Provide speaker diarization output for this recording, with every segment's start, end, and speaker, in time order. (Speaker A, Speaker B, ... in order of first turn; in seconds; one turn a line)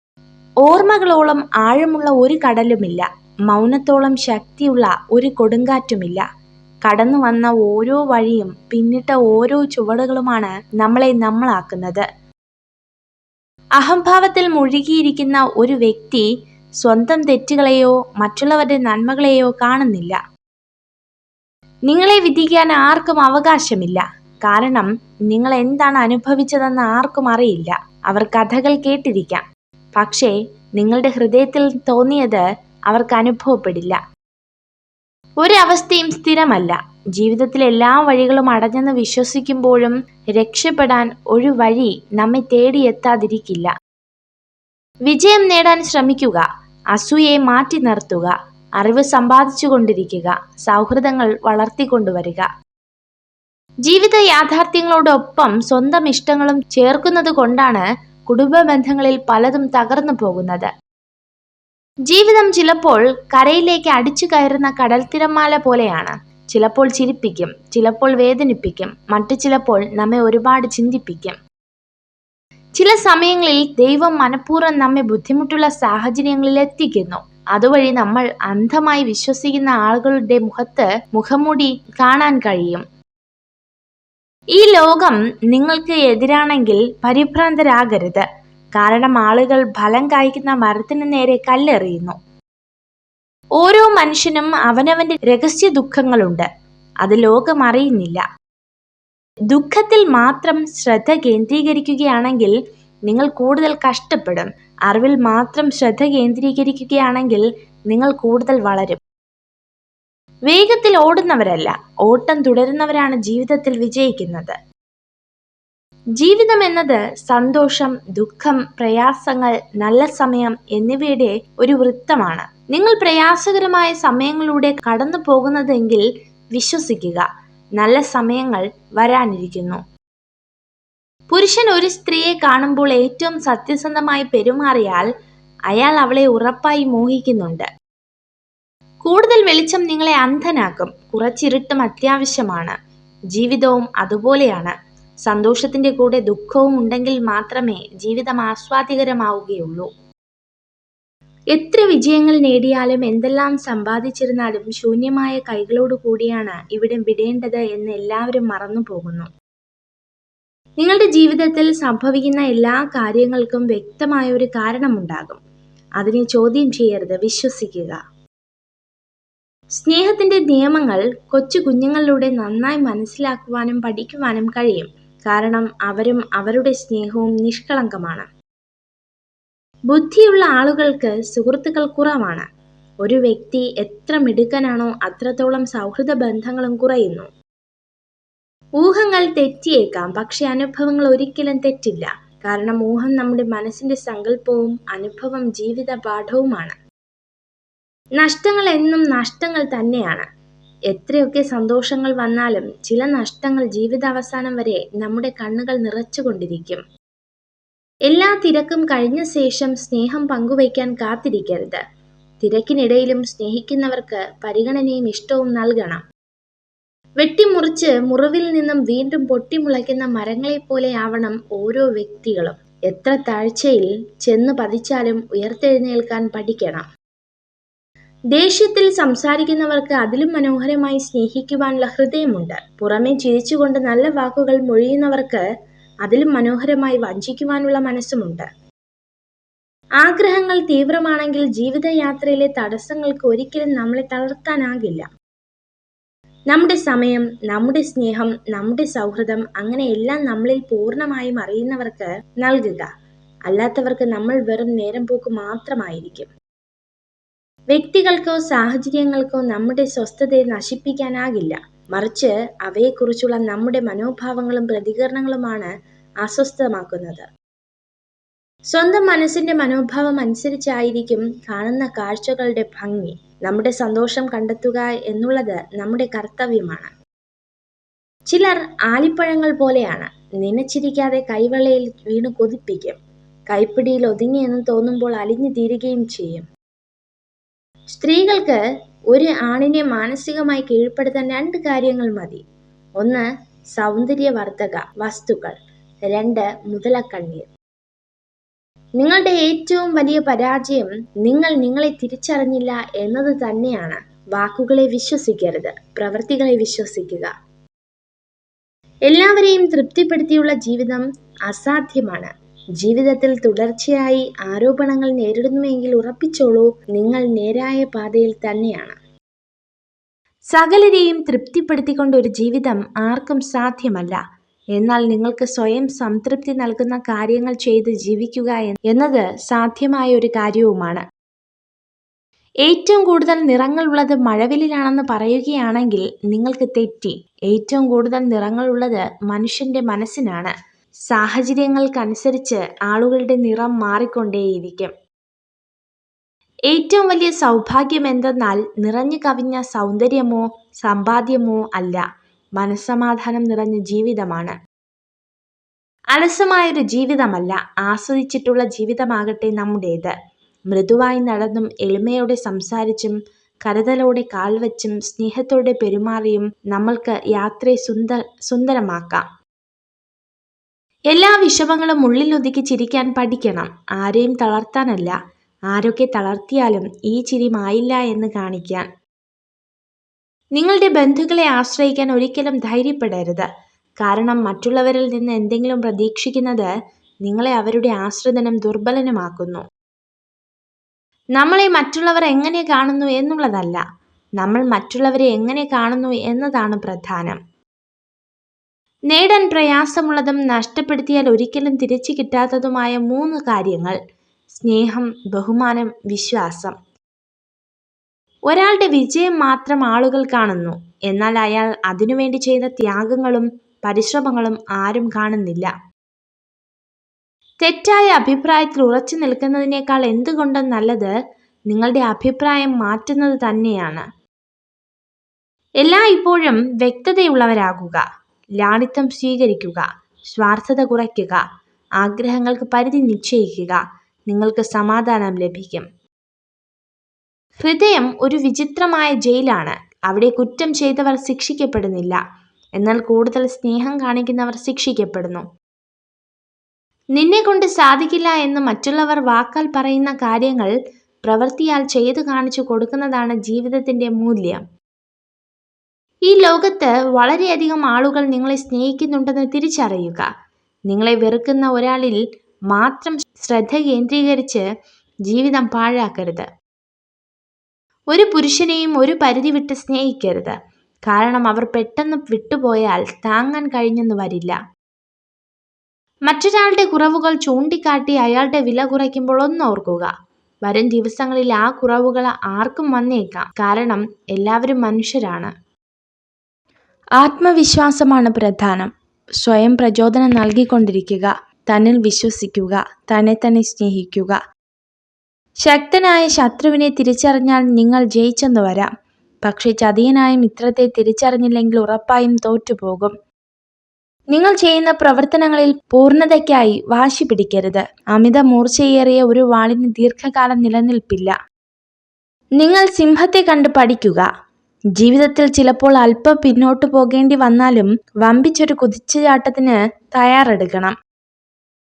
Speaker A: 0.6-6.2
Speaker A: 6.8-12.0
Speaker A: 13.8-16.2
Speaker A: 16.8-20.2
Speaker A: 21.9-29.4
Speaker A: 29.9-34.0
Speaker A: 35.4-43.7
Speaker A: 45.0-52.5
Speaker A: 53.8-60.7
Speaker A: 62.1-71.3
Speaker A: 72.8-82.8
Speaker A: 84.5-92.2
Speaker A: 93.6-96.5
Speaker A: 97.0-98.2
Speaker A: 99.5-102.5
Speaker A: 103.1-109.0
Speaker A: 110.5-114.5
Speaker A: 116.2-127.2
Speaker A: 127.8-129.8
Speaker A: 131.3-135.1
Speaker A: 135.7-137.7
Speaker A: 139.0-142.7
Speaker A: 143.3-144.7
Speaker A: 145.2-149.9
Speaker A: 151.5-159.3
Speaker A: 160.8-165.4
Speaker A: 166.0-168.0
Speaker A: 169.8-178.2
Speaker A: 179.9-182.4
Speaker A: 183.0-187.3
Speaker A: 188.8-196.7
Speaker A: 198.2-200.2
Speaker A: 200.9-206.8
Speaker A: 208.1-211.8
Speaker A: 212.4-216.0
Speaker A: 217.2-226.8
Speaker A: 228.3-235.4
Speaker A: 236.0-238.4
Speaker A: 240.0-245.1
Speaker A: 246.5-252.9
Speaker A: 253.5-256.3
Speaker A: 257.7-265.7
Speaker A: 266.2-267.2
Speaker A: 268.7-276.9
Speaker A: 278.3-283.0
Speaker A: 283.5-286.5
Speaker A: 287.9-288.6
Speaker A: 289.1-292.4
Speaker A: 293.7-295.5
Speaker A: 296.1-297.4
Speaker A: 299.0-307.3
Speaker A: 309.1-318.9
Speaker A: 320.5-324.2
Speaker A: 324.7-331.0
Speaker A: 332.6-340.5
Speaker A: 341.1-344.9
Speaker A: 346.7-352.0
Speaker A: 352.6-354.5
Speaker A: 356.1-360.1
Speaker A: 360.7-369.2
Speaker A: 371.1-375.1
Speaker A: 375.7-378.9
Speaker A: 380.6-383.5
Speaker A: 384.0-386.7
Speaker A: 387.2-389.6
Speaker A: 391.4-393.8
Speaker A: 394.4-397.4
Speaker A: 399.1-403.9
Speaker A: 404.5-406.7
Speaker A: 408.5-415.7
Speaker A: 417.6-421.1
Speaker A: 421.7-424.0
Speaker A: 425.8-428.0
Speaker A: 428.6-431.4
Speaker A: 432.0-435.8
Speaker A: 437.6-442.2
Speaker A: 442.8-445.4
Speaker A: 447.1-450.7
Speaker A: 451.2-454.6
Speaker A: 456.3-460.3
Speaker A: 460.9-462.2
Speaker A: 462.7-464.6
Speaker A: 465.3-466.4
Speaker A: 468.1-470.5
Speaker A: 471.1-474.6
Speaker A: 476.3-480.1
Speaker A: 480.6-485.5
Speaker A: 487.2-494.4
Speaker A: 495.6-498.9
Speaker A: 499.4-503.1
Speaker A: 504.3-511.3
Speaker A: 512.6-514.3
Speaker A: 515.0-520.9